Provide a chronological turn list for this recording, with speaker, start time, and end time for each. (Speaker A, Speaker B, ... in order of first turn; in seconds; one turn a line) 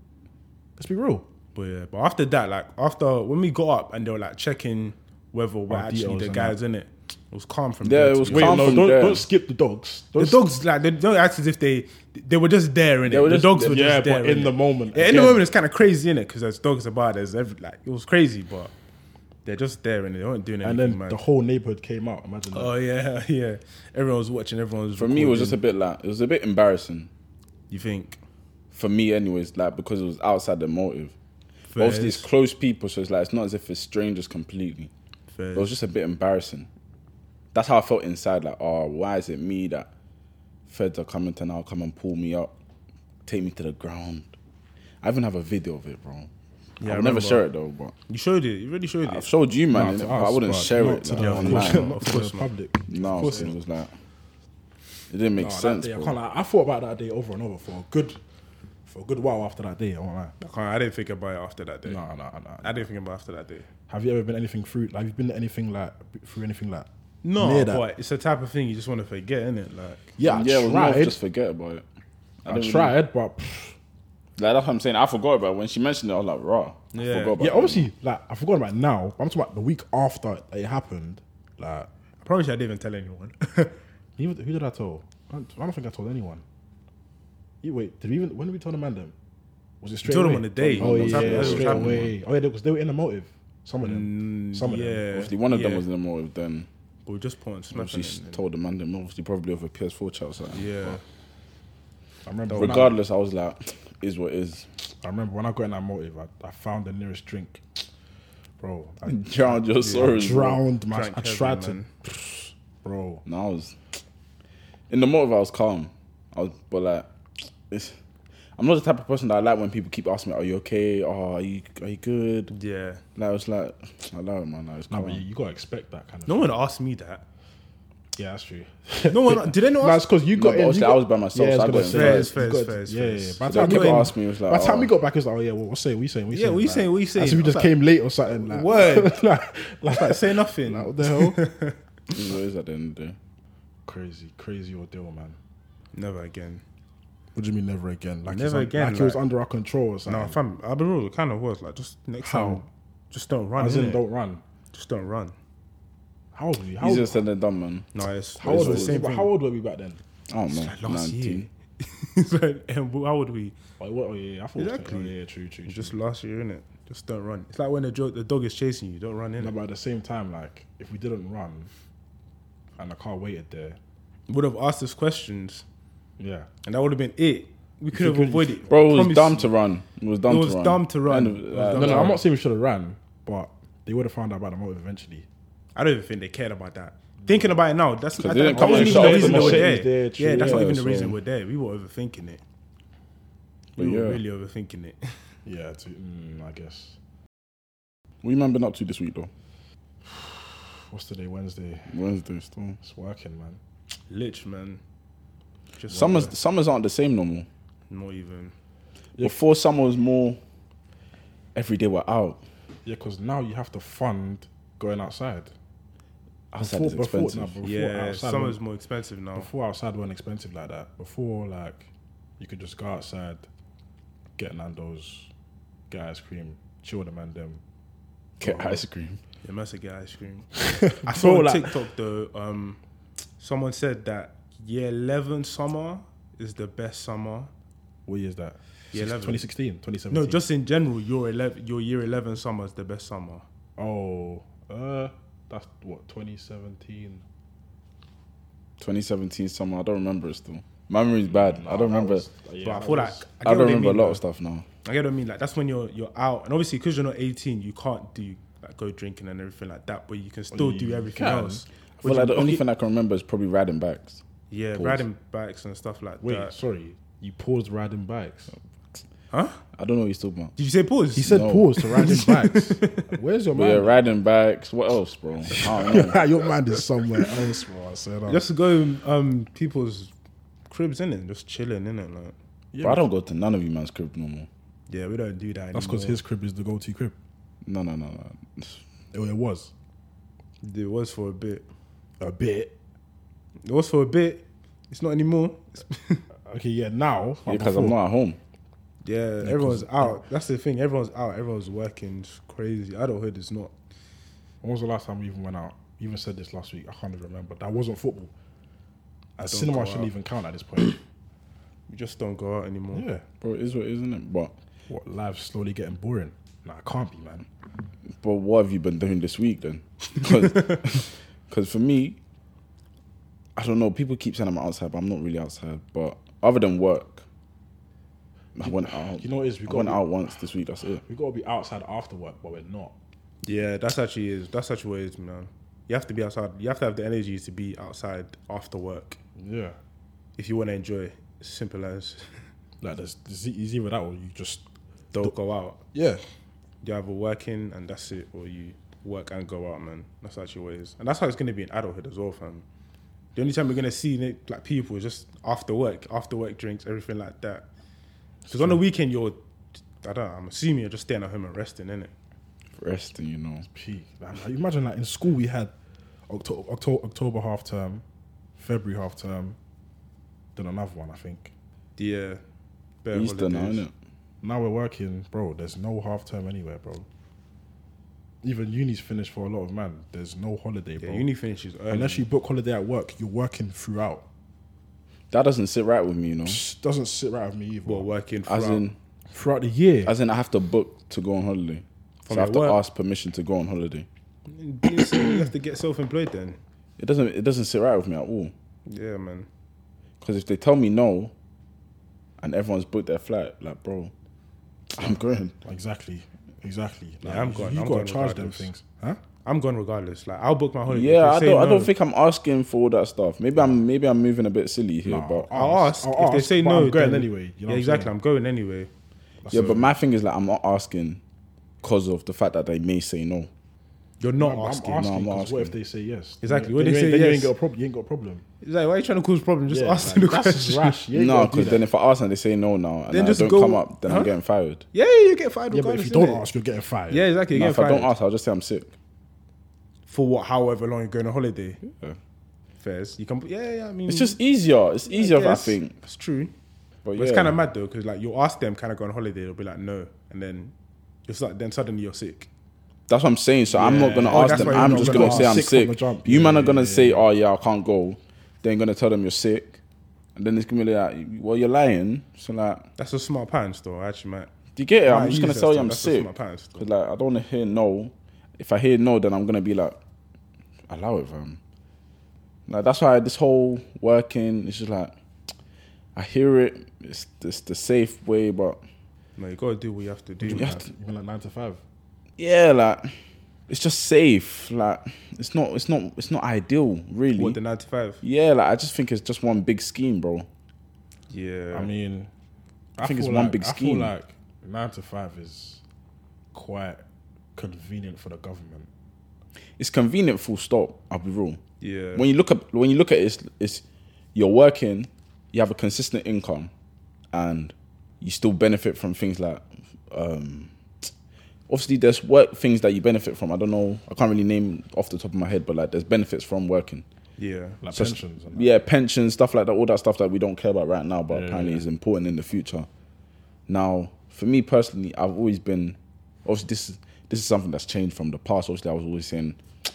Speaker A: 0.8-1.2
Speaker B: 1.5-8.8
Speaker A: 5.7-6.6
Speaker C: 7.8-9.2
Speaker A: 8.3-10.4
Speaker B: 10.2-18.7
Speaker C: 13.1-13.7
Speaker A: 13.6-15.4
Speaker B: 19.4-21.2
Speaker A: 20.6-22.7
Speaker B: 22.5-25.6
Speaker C: 25.0-27.1
Speaker B: 27.7-28.2
Speaker C: 28.7-31.1
Speaker B: 31.7-32.3
Speaker C: 31.8-34.9
Speaker B: 35.3-35.7
Speaker C: 35.5-36.7
Speaker C: 37.5-39.9
Speaker C: 40.7-42.5
Speaker C: 43.2-44.3
Speaker C: 45.0-46.3
Speaker B: 46.8-47.4
Speaker C: 46.8-47.9
Speaker B: 48.1-49.3
Speaker C: 49.0-51.9
Speaker A: 49.7-53.5
Speaker B: 51.0-52.5
Speaker C: 52.9-53.9
Speaker B: 53.1-53.5
Speaker C: 55.1-56.1
Speaker A: 55.4-58.2
Speaker A: 58.9-60.3
Speaker B: 60.4-62.0
Speaker A: 61.9-62.7
Speaker B: 62.6-63.6
Speaker A: 63.9-67.8
Speaker B: 67.2-70.1
Speaker A: 70.2-71.2
Speaker C: 70.2-71.8
Speaker C: 72.4-72.9
Speaker A: 72.5-73.8
Speaker C: 74.4-77.9
Speaker B: 76.9-77.4
Speaker A: 77.4-81.9
Speaker B: 82.2-83.8
Speaker A: 84.2-86.4
Speaker A: 87.6-89.1
Speaker A: 89.8-95.2
Speaker B: 90.0-92.1
Speaker C: 90.8-92.1
Speaker B: 93.8-95.8
Speaker C: 95.1-96.7
Speaker B: 97.0-98.4
Speaker C: 97.7-101.0
Speaker B: 100.5-101.0
Speaker A: 102.2-102.9
Speaker B: 102.5-102.9
Speaker C: 102.5-104.7
Speaker A: 105.0-107.6
Speaker A: 108.6-113.2
Speaker C: 109.0-110.6
Speaker B: 109.8-111.9
Speaker C: 113.2-113.8
Speaker C: 114.9-117.1
Speaker C: 117.7-118.0
Speaker C: 118.6-122.5
Speaker B: 122.5-123.0
Speaker C: 123.2-125.2
Speaker A: 124.9-126.5
Speaker B: 126.3-127.2
Speaker A: 128.2-141.4
Speaker B: 129.1-130.1
Speaker C: 130.3-132.3
Speaker B: 131.7-134.1
Speaker C: 133.4-134.9
Speaker B: 136.3-137.8
Speaker B: 138.4-139.2
Speaker B: 139.9-141.8
Speaker C: 142.1-143.2
Speaker A: 143.8-145.4
Speaker B: 145.9-146.6
Speaker A: 147.3-150.4
Speaker B: 148.3-149.2
Speaker B: 150.1-154.0
Speaker A: 152.2-152.6
Speaker A: 153.6-154.4
Speaker B: 154.7-155.3
Speaker A: 156.3-157.2
Speaker C: 156.8-159.0
Speaker B: 157.9-159.3
Speaker A: 158.4-160.0
Speaker C: 160.3-161.5
Speaker B: 160.5-163.6
Speaker A: 163.8-165.9
Speaker B: 164.6-165.1
Speaker B: 165.7-169.5
Speaker A: 169.4-171.7
Speaker A: 172.8-173.8
Speaker B: 174.3-175.6
Speaker A: 176.2-176.5
Speaker B: 176.6-179.5
Speaker A: 177.9-178.7
Speaker C: 178.7-182.2
Speaker B: 180.3-182.2
Speaker A: 181.7-185.2
Speaker B: 185.8-192.4
Speaker C: 188.2-189.8
Speaker A: 188.5-190.8
Speaker C: 190.3-191.1
Speaker C: 193.8-194.2
Speaker B: 193.8-195.2
Speaker A: 195.4-197.0
Speaker C: 198.2-199.3
Speaker A: 200.0-201.9
Speaker C: 201.9-202.8
Speaker A: 202.8-203.6
Speaker B: 204.1-204.8
Speaker B: 205.8-206.3
Speaker C: 205.9-207.5
Speaker B: 207.9-208.5
Speaker C: 209.2-210.4
Speaker C: 211.5-212.4
Speaker A: 212.8-215.5
Speaker C: 216.5-217.6
Speaker A: 216.6-218.6
Speaker B: 217.6-219.5
Speaker A: 219.3-223.4
Speaker A: 224.4-225.3
Speaker A: 225.9-227.6
Speaker C: 228.4-229.2
Speaker A: 228.4-228.8
Speaker B: 229.4-232.8
Speaker A: 230.6-231.8
Speaker B: 233.4-237.5
Speaker A: 238.1-240.4
Speaker B: 238.9-239.5
Speaker B: 240.1-243.4
Speaker A: 243.8-247.2
Speaker C: 248.8-252.3
Speaker A: 251.3-253.2
Speaker B: 252.6-254.2
Speaker C: 253.4-254.6
Speaker B: 254.8-262.6
Speaker A: 260.5-261.6
Speaker C: 262.0-264.2
Speaker B: 264.5-266.5
Speaker C: 264.7-265.0
Speaker A: 266.2-268.5
Speaker B: 269.3-269.6
Speaker C: 269.7-270.5
Speaker B: 270.6-273.1
Speaker A: 271.1-274.0
Speaker C: 271.3-271.6
Speaker C: 273.5-276.2
Speaker A: 275.6-278.4
Speaker B: 278.3-280.1
Speaker B: 280.7-282.3
Speaker A: 282.7-283.0
Speaker C: 282.8-284.5
Speaker B: 284.9-286.2
Speaker A: 285.7-287.1
Speaker C: 287.6-288.8
Speaker A: 289.1-289.7
Speaker B: 290.6-291.6
Speaker A: 292.2-292.7
Speaker B: 293.6-296.2
Speaker A: 296.4-297.9
Speaker C: 297.4-298.4
Speaker B: 299.0-303.7
Speaker A: 299.4-300.2
Speaker A: 304.6-308.3
Speaker A: 309.4-311.0
Speaker B: 309.4-310.1
Speaker B: 311.9-313.1
Speaker A: 312.9-313.2
Speaker C: 313.4-314.5
Speaker A: 314.9-317.5
Speaker C: 318.2-322.2
Speaker B: 320.4-320.7
Speaker C: 323.6-327.2
Speaker C: 328.5-331.0
Speaker A: 328.6-330.1
Speaker A: 331.0-332.9
Speaker B: 333.4-339.2
Speaker A: 339.4-339.8
Speaker B: 340.4-342.4
Speaker A: 342.8-344.6
Speaker B: 345.1-345.8
Speaker A: 345.9-346.2
Speaker B: 346.8-352.6
Speaker B: 353.4-357.6
Speaker A: 358.4-358.8
Speaker B: 358.5-359.4
Speaker B: 360.0-362.1
Speaker C: 362.8-363.6
Speaker A: 363.7-365.7
Speaker A: 366.3-368.0
Speaker A: 368.6-369.6
Speaker A: 370.6-371.5
Speaker B: 372.0-372.4
Speaker B: 373.0-373.8
Speaker C: 373.1-373.9
Speaker A: 374.4-377.1
Speaker A: 378.4-381.3
Speaker B: 381.0-382.2
Speaker A: 381.9-384.2
Speaker C: 385.3-386.6
Speaker A: 386.4-388.1
Speaker B: 387.9-388.9
Speaker C: 388.4-388.9
Speaker A: 389.3-390.1
Speaker C: 390.0-394.1
Speaker B: 392.2-392.8
Speaker B: 394.5-396.6
Speaker C: 397.0-398.5
Speaker B: 398.9-399.5
Speaker C: 400.2-401.3
Speaker C: 402.4-404.1
Speaker C: 404.9-405.5
Speaker A: 405.6-409.2
Speaker B: 407.2-408.7
Speaker B: 409.4-411.9
Speaker C: 410.9-415.5
Speaker A: 415.0-418.1
Speaker B: 415.5-418.9
Speaker A: 419.4-419.9
Speaker C: 419.5-421.2
Speaker B: 419.5-419.8
Speaker C: 421.8-423.5
Speaker B: 424.2-425.2
Speaker A: 424.4-428.4
Speaker C: 425.0-425.7
Speaker B: 426.4-427.5
Speaker B: 428.6-431.0
Speaker A: 429.7-431.8
Speaker C: 431.1-434.8
Speaker B: 433.1-434.3
Speaker B: 434.9-436.4
Speaker A: 435.7-437.3
Speaker B: 437.1-438.1
Speaker C: 437.5-438.9
Speaker B: 440.1-441.8
Speaker C: 441.8-442.2
Speaker B: 442.8-444.4
Speaker C: 444.1-445.9
Speaker B: 445.1-446.5
Speaker C: 447.0-447.6
Speaker B: 447.1-450.7
Speaker B: 451.3-452.5
Speaker C: 453.1-459.8
Speaker A: 453.7-457.2
Speaker B: 453.8-455.6
Speaker C: 460.4-462.8
Speaker B: 463.0-464.5
Speaker C: 464.8-470.0
Speaker B: 465.1-466.9
Speaker C: 470.9-471.6
Speaker C: 472.7-475.1
Speaker C: 476.1-478.8
Speaker B: 479.4-480.8
Speaker A: 480.4-481.8
Speaker C: 480.5-480.8
Speaker C: 482.4-483.1
Speaker C: 483.7-487.6
Speaker B: 487.3-488.2
Speaker C: 488.2-490.5
Speaker B: 491.3-491.9
Speaker A: 491.7-492.3
Speaker A: 493.0-495.8
Speaker C: 493.0-494.1
Speaker A: 496.5-497.0
Speaker A: 497.5-498.9
Speaker C: 499.8-501.6
Speaker B: 501.8-502.2
Speaker C: 502.1-503.8
Speaker C: 504.3-506.7
Speaker C: 507.3-510.7
Speaker C: 511.7-517.0
Speaker B: 517.4-517.8
Speaker A: 517.8-518.7
Speaker C: 517.9-522.9
Speaker A: 521.3-521.8
Speaker C: 523.7-529.6